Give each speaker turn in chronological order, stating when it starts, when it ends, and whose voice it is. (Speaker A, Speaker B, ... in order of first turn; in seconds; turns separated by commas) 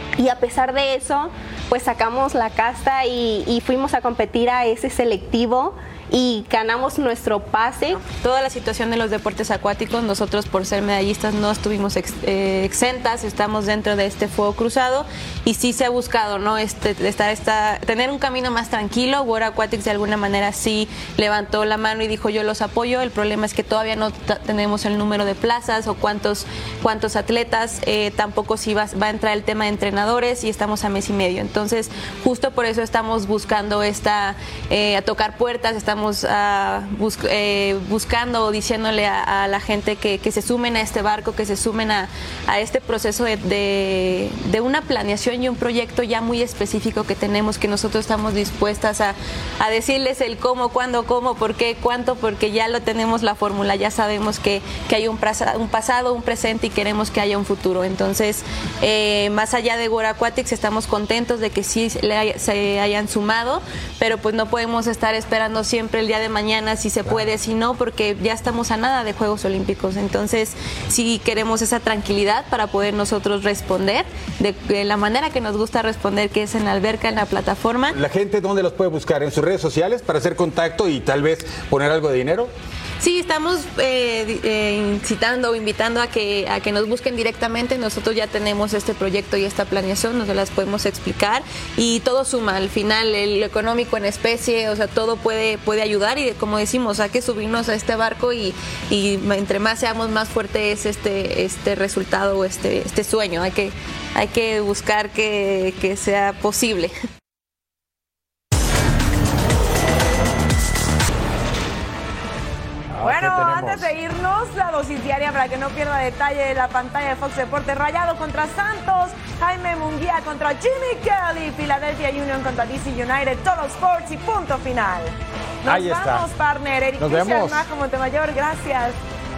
Speaker A: 0.2-8.0, Speaker B: 8.0-78.0, Speaker C: 77.9-82.5, Speaker B: 83.0-106.9, Speaker C: 112.9-113.9, Speaker D: 113.0-129.0, Speaker C: 125.7-126.3, Speaker C: 127.0-127.7